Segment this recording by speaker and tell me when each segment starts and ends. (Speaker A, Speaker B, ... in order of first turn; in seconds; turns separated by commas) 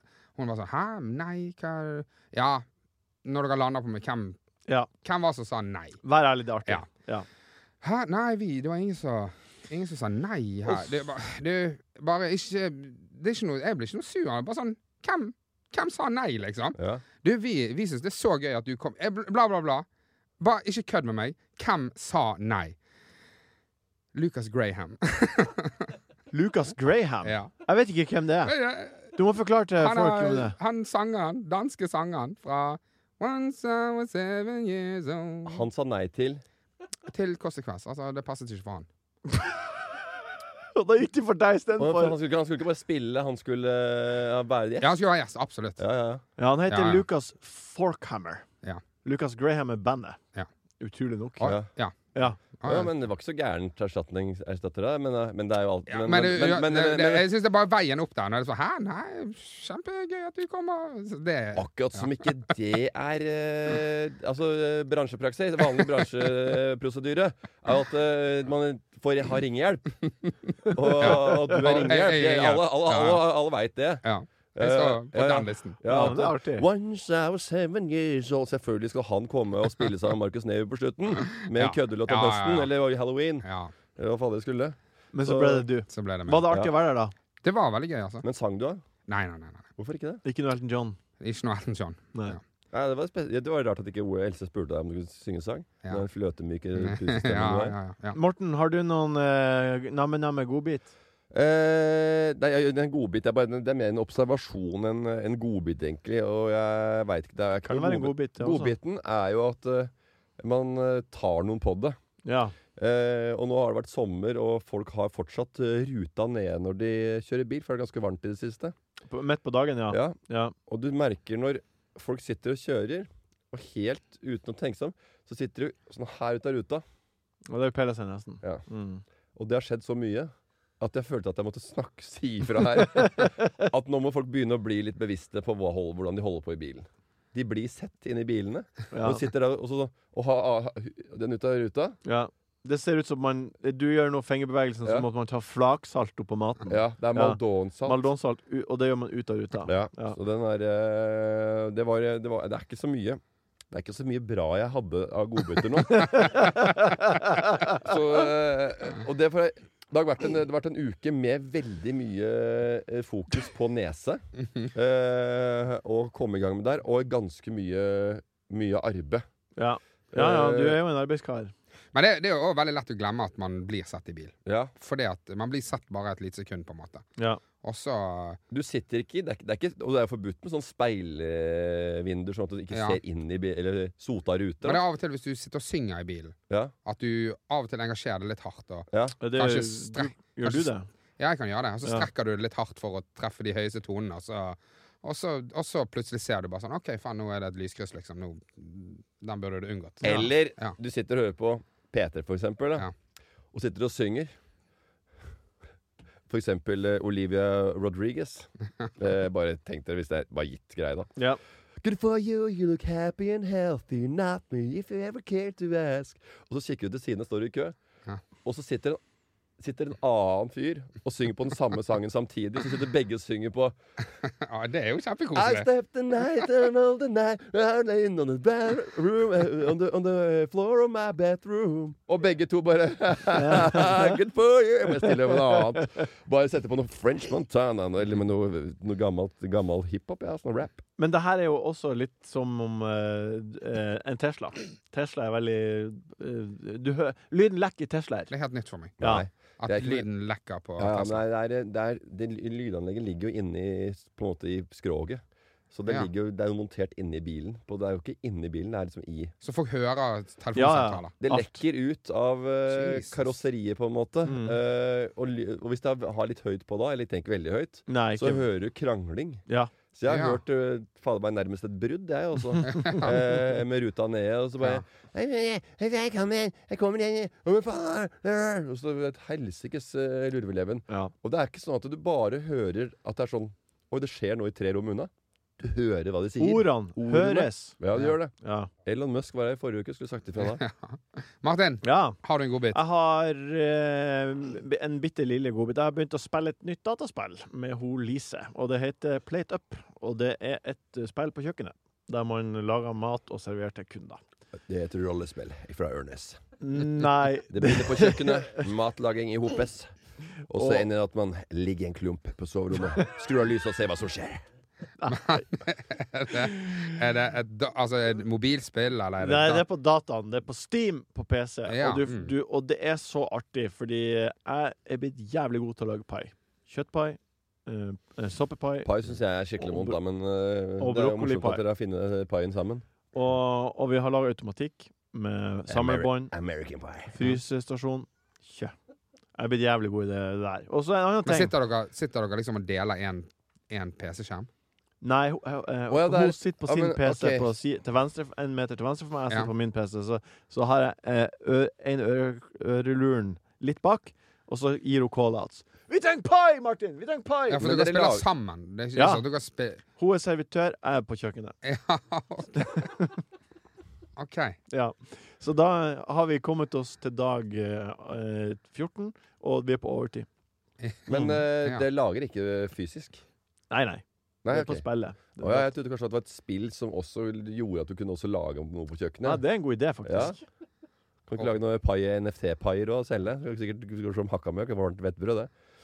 Speaker A: 0.4-2.6, Speaker A: 3.2-4.4, Speaker A: 5.0-6.0, Speaker B: 6.0-7.3, Speaker A: 7.8-19.9, Speaker C: 16.8-17.0, Speaker A: 20.4-22.8, Speaker A: 24.1-25.9, Speaker B: 26.3-28.6, Speaker A: 27.2-27.5, Speaker A: 28.4-29.1, Speaker B: 29.1-30.6, Speaker A: 29.8-35.6, Speaker C: 35.5-36.4, Speaker A: 37.1-38.9, Speaker B: 40.7-42.2, Speaker C: 41.8-45.0, Speaker A: 44.8-45.8, Speaker C: 45.8-46.2, Speaker B: 46.4-48.5, Speaker A: 46.7-47.0, Speaker B: 49.0-50.2, Speaker B: 50.8-51.5, Speaker A: 51.4-52.0, Speaker C: 51.4-51.7, Speaker A: 52.6-52.9, Speaker C: 52.6-57.2, Speaker A: 55.9-62.1, Speaker C: 61.6-70.0, Speaker C: 70.7-74.0, Speaker A: 71.0-73.3, Speaker A: 74.0-75.8, Speaker C: 74.5-85.7, Speaker B: 75.8-76.7, Speaker A: 81.3-82.7, Speaker A: 83.4-83.7, Speaker B: 85.1-87.1, Speaker A: 85.9-86.5, Speaker A: 87.4-88.2, Speaker C: 88.2-88.8, Speaker A: 89.1-89.7, Speaker C: 89.8-90.2, Speaker B: 90.2-91.0, Speaker A: 91.2-92.4, Speaker C: 92.7-97.8, Speaker A: 96.8-98.2, Speaker B: 98.1-100.9, Speaker C: 101.3-112.0, Speaker B: 107.6-108.8, Speaker B: 112.2-112.5, Speaker C: 112.8-118.8, Speaker B: 119.1-120.5, Speaker C: 119.9-126.8, Speaker B: 127.5-129.0, Speaker C: 129.4-142.0, Speaker B: 133.0-133.3, Speaker B: 138.9-139.2, Speaker B: 142.1-150.2, Speaker C: 146.7-148.0, Speaker C: 149.7-156.7, Speaker B: 156.1-157.5, Speaker C: 157.6-164.2, Speaker C: 164.7-169.2, Speaker B: 169.6-171.5, Speaker C: 170.1-170.8, Speaker A: 171.9-177.1, Speaker C: 174.5-174.7, Speaker A: 177.6-178.4, Speaker C: 178.5-184.8, Speaker A: 182.7-183.0, Speaker A: 184.6-200.8, Speaker B: 189.2-190.9, Speaker C: 200.0-202.9, Speaker C: 203.5-204.3, Speaker C: 206.3-211.1, Speaker C: 211.8-217.8, Speaker C: 218.4-219.0, Speaker C: 219.6-223.8, Speaker A: 224.4-225.7, Speaker C: 225.3-240.8, Speaker B: 233.3-234.2, Speaker B: 241.0-248.3, Speaker A: 248.3-249.0, Speaker C: 249.0-250.1, Speaker A: 249.6-251.2, Speaker C: 250.8-259.3, Speaker A: 259.4-261.1, Speaker B: 260.6-261.6, Speaker C: 261.2-269.4, Speaker A: 262.7-263.4, Speaker B: 264.2-264.6, Speaker B: 267.9-268.4, Speaker B: 269.5-269.7, Speaker C: 269.9-288.3, Speaker A: 270.1-270.4, Speaker A: 272.6-273.2, Speaker B: 286.4-288.7, Speaker C: 288.8-290.6, Speaker A: 290.4-292.8, Speaker B: 291.8-292.2, Speaker B: 292.7-304.2, Speaker C: 304.7-306.4, Speaker B: 306.6-308.6, Speaker C: 307.5-309.9, Speaker C: 310.5-314.4, Speaker B: 310.6-310.9, Speaker B: 315.0-315.5, Speaker A: 315.1-319.6, Speaker B: 316.3-316.8, Speaker B: 319.2-328.9, Speaker A: 321.7-322.3, Speaker C: 328.9-332.9, Speaker B: 329.6-330.0, Speaker B: 330.8-331.6, Speaker B: 333.1-336.3, Speaker C: 335.7-337.2, Speaker B: 337.1-338.7, Speaker B: 339.4-341.5, Speaker A: 341.2-344.5, Speaker B: 345.0-357.6, Speaker C: 345.9-347.5, Speaker A: 357.5-359.8, Speaker C: 357.6-358.3, Speaker B: 359.0-359.2, Speaker B: 360.0-361.6, Speaker A: 361.6-362.9, Speaker B: 362.6-363.1, Speaker A: 364.2-364.6, Speaker B: 364.7-370.3, Speaker A: 370.8-371.8, Speaker C: 371.1-373.2, Speaker B: 373.7-375.7, Speaker C: 374.4-379.4, Speaker B: 379.2-380.4, Speaker C: 380.1-380.4, Speaker C: 381.3-385.5